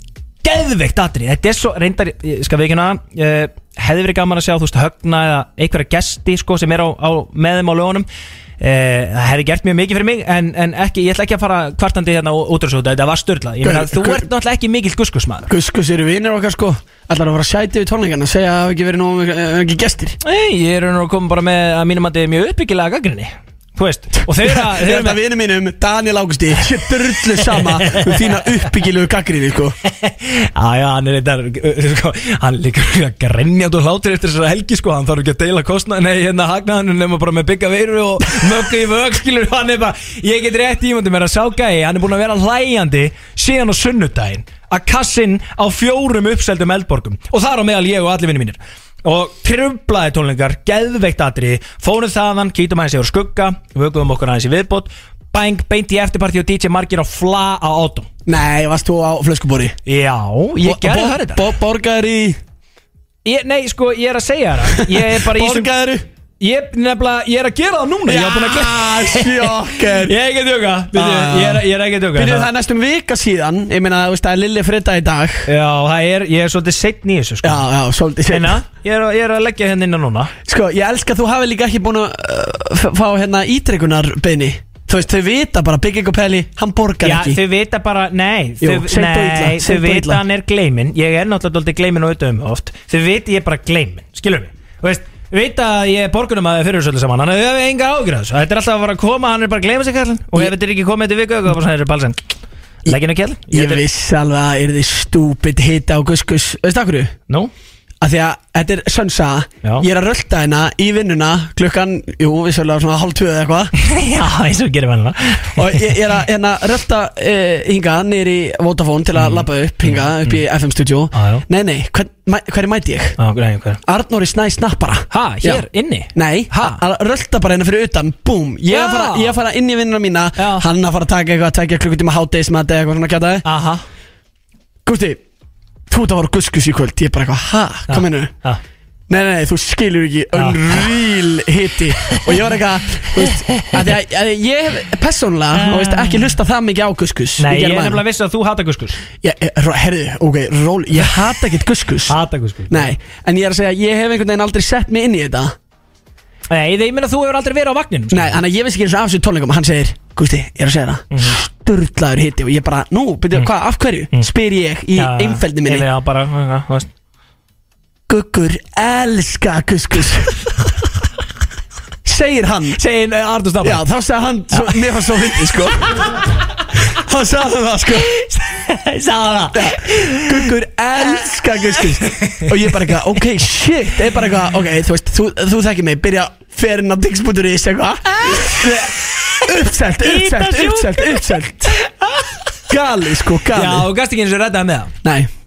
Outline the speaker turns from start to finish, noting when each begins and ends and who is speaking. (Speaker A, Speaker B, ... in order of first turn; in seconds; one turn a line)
Speaker A: 0.4-8.1
Speaker A: 8.6-15.5
Speaker B: 13.6-14.3
Speaker B: 15.5-20.2
Speaker A: 20.2-25.2
Speaker B: 24.3-29.8
Speaker A: 27.3-28.3
Speaker A: 29.9-58.1
Speaker B: 58.3-59.8
Speaker A: 59.9-61.5
Speaker B: 60.6-62.4
Speaker A: 63.2-65.7
Speaker B: 64.8-66.0
Speaker A: 66.4-72.5
Speaker B: 68.1-70.2
Speaker B: 70.9-75.5
Speaker A: 75.5-77.7
Speaker B: 77.4-78.6
Speaker A: 78.3-80.3
Speaker B: 80.5-87.4
Speaker A: 87.0-102.2
Speaker B: 88.6-90.2
Speaker A: 102.9-103.8
Speaker B: 103.5-107.1
Speaker B: 108.0-113.7
Speaker A: 113.8-116.0
Speaker B: 115.6-123.2
Speaker A: 119.2-120.4
Speaker A: 121.1-121.4
Speaker A: 123.2-123.8
Speaker B: 123.9-133.4
Speaker A: 125.1-126.8
Speaker A: 128.7-129.4
Speaker A: 130.4-130.7
Speaker A: 133.4-133.8
Speaker B: 134.9-135.2
Speaker B: 135.9-138.3
Speaker A: 137.9-138.6
Speaker B: 139.1-148.0
Speaker A: 140.3-140.8
Speaker A: 142.1-142.4
Speaker A: 143.2-143.8
Speaker A: 145.6-146.3
Speaker A: 147.4-149.0
Speaker B: 149.2-152.2
Speaker A: 152.1-152.9
Speaker B: 152.7-155.6
Speaker A: 156.5-158.4
Speaker B: 158.1-165.9
Speaker A: 161.1-161.4
Speaker A: 164.9-166.9
Speaker B: 168.1-170.4
Speaker B: 172.1-172.8
Speaker A: 172.8-173.8
Speaker B: 173.6-175.9
Speaker A: 174.5-175.4
Speaker A: 175.9-176.2
Speaker B: 176.9-178.2
Speaker A: 178.2-180.5
Speaker B: 179.5-188.7
Speaker A: 181.2-182.9
Speaker A: 188.2-188.9
Speaker B: 189.4-191.8
Speaker A: 190.0-192.5
Speaker B: 192.7-193.9
Speaker A: 193.5-194.9
Speaker B: 195.0-195.3